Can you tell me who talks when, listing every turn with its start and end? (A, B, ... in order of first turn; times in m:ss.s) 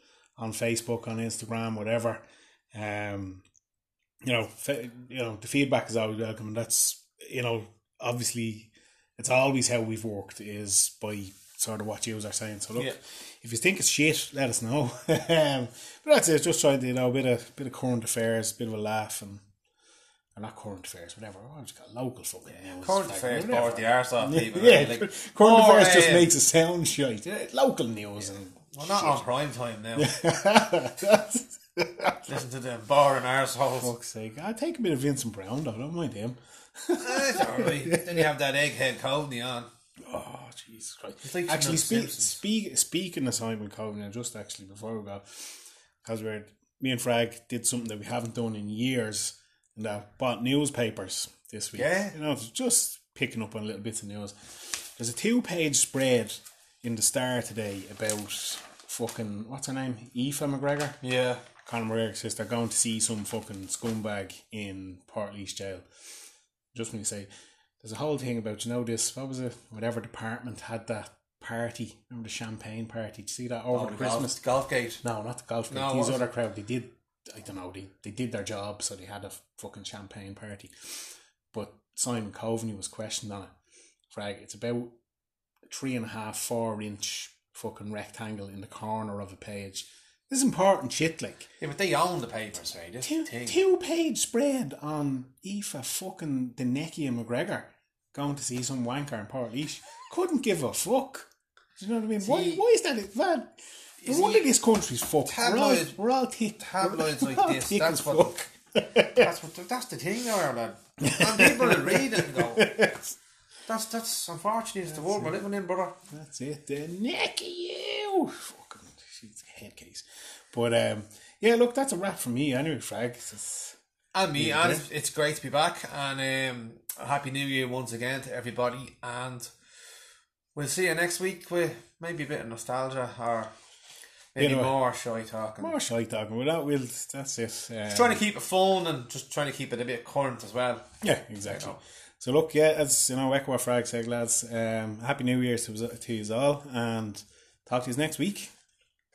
0:00.4-0:03.4 A
0:04.2-0:19.4 A
0:20.3-0:29.2 A
0:22.6-0:26.3 B
0:28.7-0:30.1 B
0:30.0-0:32.2 A
0:32.3-0:33.9 B
0:33.8-0:38.2 A
0:37.0-0:39.7 B
0:40.0-1:01.0 A
0:41.2-0:42.4 B
0:51.7-0:52.1 B
1:01.0-1:01.4 B
1:01.6-1:05.9 A
1:06.7-1:07.3 A
1:07.8-1:14.4 A
1:13.7-1:15.0 B
1:15.0-1:23.5 A
1:15.7-1:16.2 B
1:24.1-1:24.9 A
1:25.6-1:31.5 A
1:31.6-1:33.6 B
1:33.0-1:49.3 A
1:42.2-1:42.6 B
1:44.0-1:44.5 B
1:45.2-1:46.0 B
1:46.6-1:48.4 B
1:49.0-1:52.7 B
1:51.0-1:53.2 A
1:53.7-1:56.0 B
1:54.9-1:55.3 A
1:56.1-2:03.8 A
2:04.1-2:09.5 B
2:04.3-2:04.8 A
2:10.5-2:13.5 B
2:14.3-2:15.7 B
2:14.4-2:14.7 A
2:15.6-2:18.2 A
2:17.9-2:20.8 B
2:21.0-2:28.5 A
2:21.4-2:21.8 B